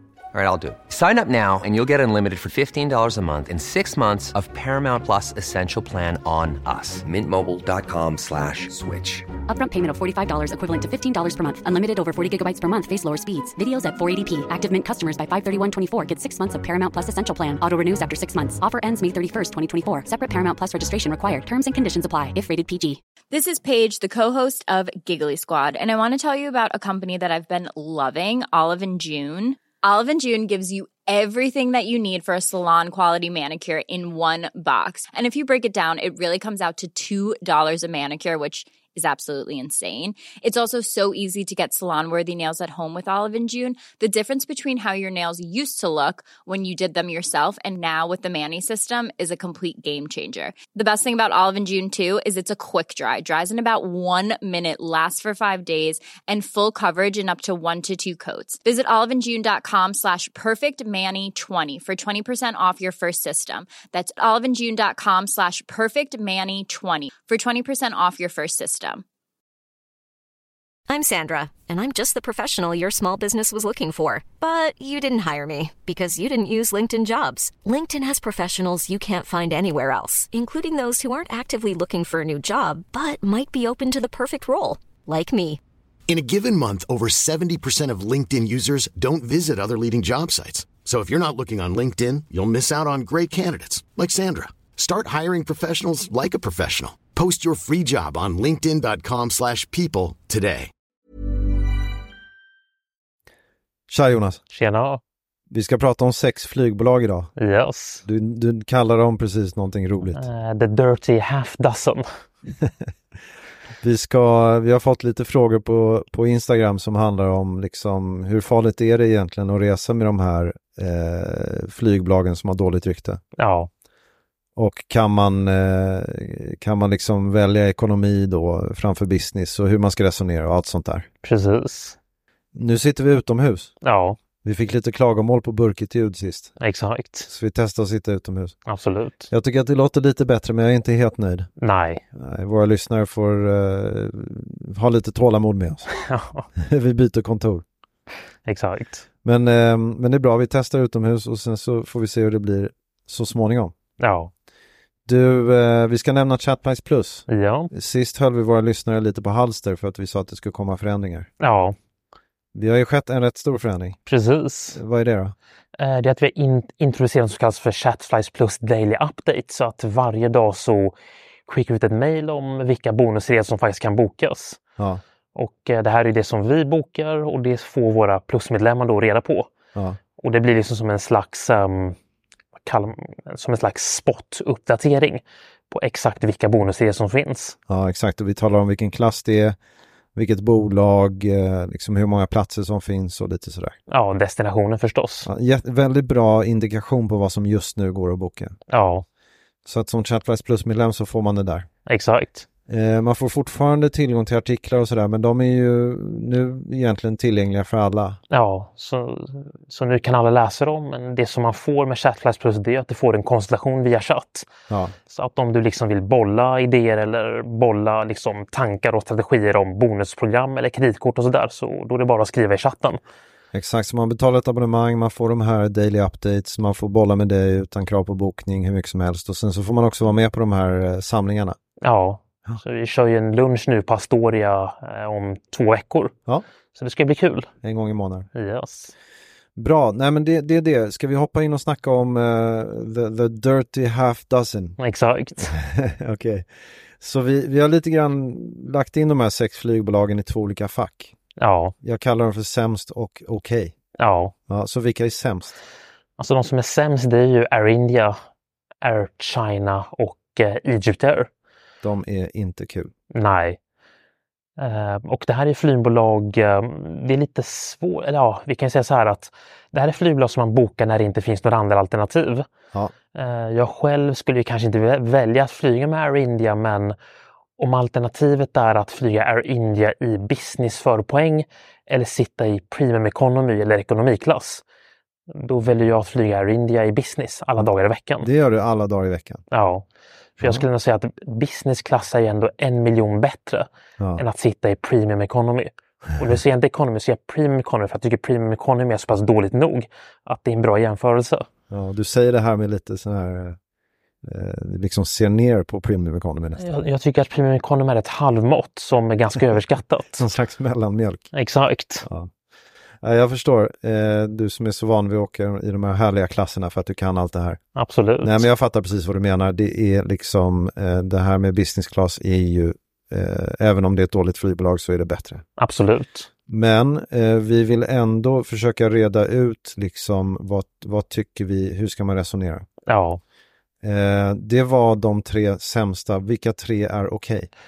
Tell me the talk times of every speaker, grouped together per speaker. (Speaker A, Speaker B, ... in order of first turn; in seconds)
Speaker A: 0.3-9.3
Speaker B: 9.5-23.0
Speaker C: 23.3-69.0
Speaker D: 70.9-85.6
Speaker E: 86.1-100.7
Speaker F: 103.9-104.4, 105.5-107.3, 108.0-110.2, 113.8-123.2, 124.6-131.1, 132.6-133.7, 134.4-136.5, 137.3-138.6, 139.3-141.5, 142.1-145.9, 146.6-147.6, 149.2-153.7, 155.1-161.3, 162.6-164.0, 164.7-165.3, 187.7-189.6, 190.2-193.8, 195.2-198.6, 199.7-201.7, 202.7-208.2, 214.7-214.9, 223.5-231.6, 237.6-238.3, 239.6-244.8, 245.5-246.5, 247.0-251.1, 251.8-253.7, 254.5-255.6, 261.8-262.9, 288.2-289.4, 301.7-303.6, 304.2-306.8, 310.2-311.3, 312.1-312.3, 313.0-317.6, 318.2-325.4, 326.5-332.7, 333.8-337.5
Speaker G: 104.5-105.0, 107.4-108.0, 110.1-112.0, 123.4-123.7, 131.2-132.0, 133.8-134.2, 136.6-137.3, 138.7-139.3, 141.6-142.0, 146.0-146.5, 148.5-149.0, 154.0-154.3, 157.3-157.7, 161.4-161.8, 164.1-164.8, 165.8-170.9, 171.5-174.6, 175.3-179.5, 180.2-182.0, 182.6-187.6, 193.9-195.3, 198.7-199.1, 201.9-202.5, 208.3-214.5, 215.1-223.0, 231.8-236.1, 236.8-237.5, 238.3-238.9, 244.8-245.6, 251.4-251.8, 254.0-254.3, 256.2-258.2, 258.8-261.3, 263.1-263.6, 264.6-272.5, 273.1-276.9, 277.6-284.6, 285.3-288.3, 289.5-289.9, 290.4-301.5, 306.6-310.3, 311.3-312.1, 317.8-318.5, 325.6-326.3, 332.9-333.2